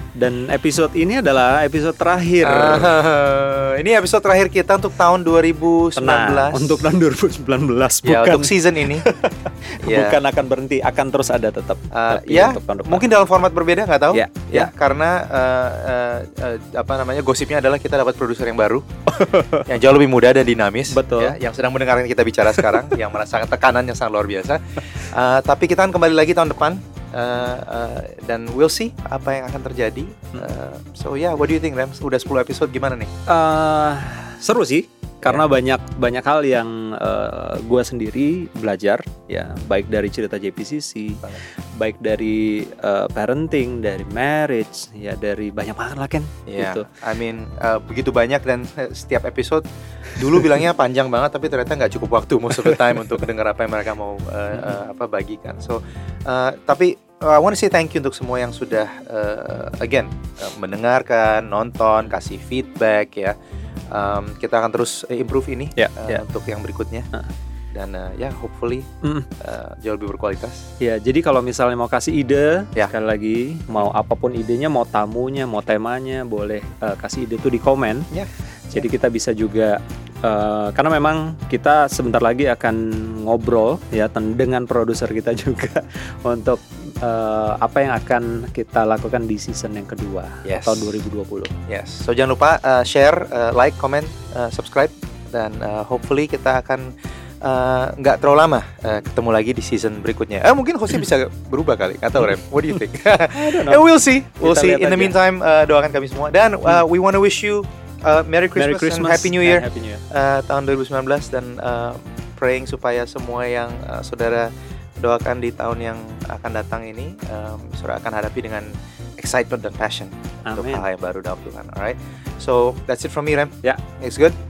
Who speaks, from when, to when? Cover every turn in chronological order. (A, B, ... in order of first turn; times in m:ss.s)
0:00.2-0:02.9 A
0:02.4-0:06.9 B
0:06.0-0:13.1 A
0:08.0-0:09.1 B
0:09.8-0:10.2 B
0:11.9-0:18.9 B
0:14.1-0:14.7 A
0:19.1-0:19.6 A
0:19.6-0:33.1 B
0:20.9-0:21.4 A
0:33.3-0:46.9 A
0:46.5-1:03.4 B
0:54.5-0:54.8 A
1:03.9-1:07.1 B
1:05.8-1:06.2 A
1:07.7-1:10.7 B
1:09.0-1:09.3 A
1:10.8-1:18.1 A
1:18.1-1:18.9 B
1:18.7-1:31.5 A
1:30.4-1:31.0 B
1:31.7-2:04.4 B
1:42.2-1:42.8 A
1:43.3-1:43.8 A
1:44.4-1:45.2 A
1:48.6-1:50.0 A
2:00.5-2:00.9 A